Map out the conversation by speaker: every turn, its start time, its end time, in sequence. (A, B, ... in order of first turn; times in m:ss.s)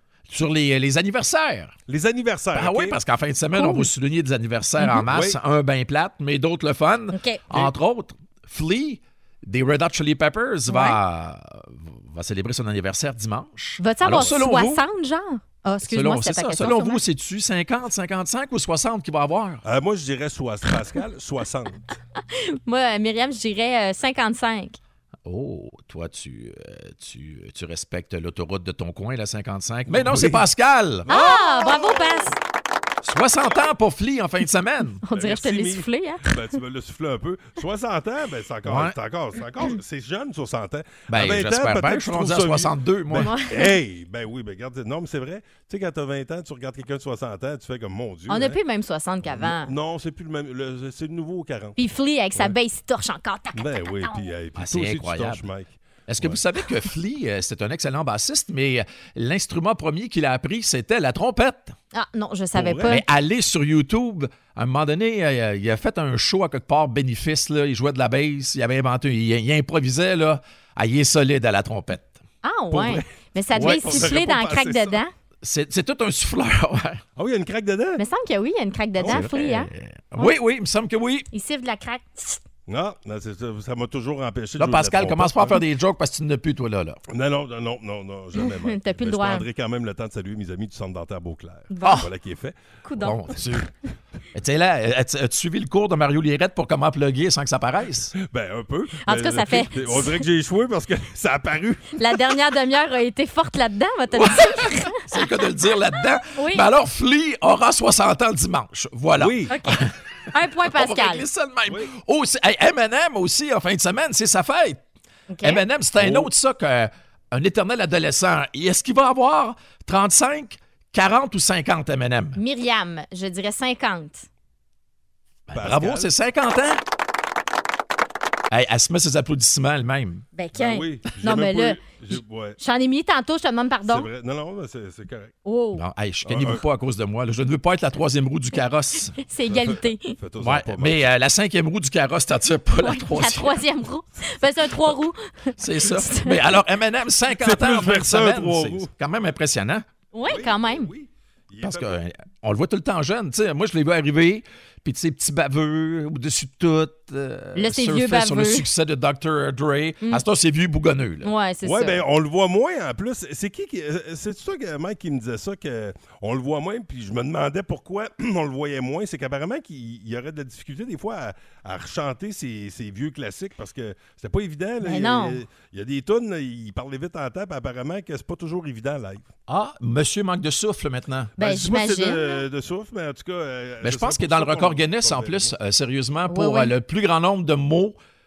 0:00.3-0:01.7 A
0:01.9-0:03.0 B
0:02.5-0:14.8 A
0:03.6-0:03.9 C
0:05.1-0:05.4 B
0:07.1-0:07.4 C
0:10.7-0:11.0 C
0:13.8-0:17.0 C
0:15.8-0:19.6 A
0:19.6-0:21.9 B
0:22.3-0:24.8 C
0:25.2-0:31.1 A
0:29.9-0:30.4 B
0:31.1-0:32.4 B
0:31.1-0:32.4 C
0:33.0-0:35.0 A
0:35.0-0:36.3 C
0:35.1-0:48.6 B
0:38.6-0:38.9 A
0:41.1-0:43.3 A
0:43.2-0:43.8 C
0:48.3-0:49.7 C
0:49.3-0:51.8 B
0:51.8-0:54.3 C
0:53.6-0:56.4 B
0:54.6-0:55.4 A
0:56.1-1:01.8 A
1:01.9-1:03.0 C
1:02.6-1:03.0 B
1:02.9-1:12.2 A
1:12.4-1:15.1 C
1:12.7-1:15.0 B
1:13.6-1:14.1 A
1:15.4-1:17.0 A
1:17.2-1:18.0 B
1:18.0-1:20.4 C
1:19.0-1:19.3 B
1:19.1-1:21.3 A
1:21.3-1:22.4 C
1:22.7-1:25.6 B
1:24.6-1:27.0 A
1:27.1-1:32.6 B
1:28.4-1:29.4 C
1:31.7-1:32.1 C
1:31.8-1:32.1 A
1:32.8-1:33.2 C
1:33.0-1:33.6 A
1:33.4-1:33.6 B
1:34.3-1:38.1 A
1:38.2-1:42.0 B
1:39.0-1:40.2 C
1:42.0-1:45.3 C
1:44.2-1:49.9 A
1:46.3-1:46.6 C
1:49.2-1:49.6 B
1:49.5-1:51.2 C
1:50.7-1:54.8 A
1:55.3-1:55.6 C
1:55.4-2:02.4 A
1:56.0-1:56.3 B
2:02.4-2:04.3 C
2:05.5-2:06.8 A
2:05.5-2:06.1 B
2:08.5-2:10.2 A
2:10.4-2:11.8 C
2:10.6-2:12.6 B
2:12.6-2:14.1 C
2:13.9-2:15.3 B
2:15.4-2:15.8 C
2:15.7-2:19.2 A
2:16.3-2:16.6 B
2:19.2-2:20.1 C
2:19.5-2:21.1 B
2:20.4-2:23.6 A
2:22.8-2:26.4 C
2:25.6-2:29.8 A
2:27.4-2:28.9 B
2:30.1-2:30.9 C
2:30.3-2:31.9 B
2:31.6-2:41.3 A
2:37.6-2:38.6 C
2:41.2-2:42.0 C
2:41.6-2:59.3 B
2:54.8-2:55.4 C
2:59.5-3:01.3 A
3:01.4-3:02.4 C
3:01.4-3:05.5 B
3:03.8-3:08.0 A
3:06.3-3:06.7 C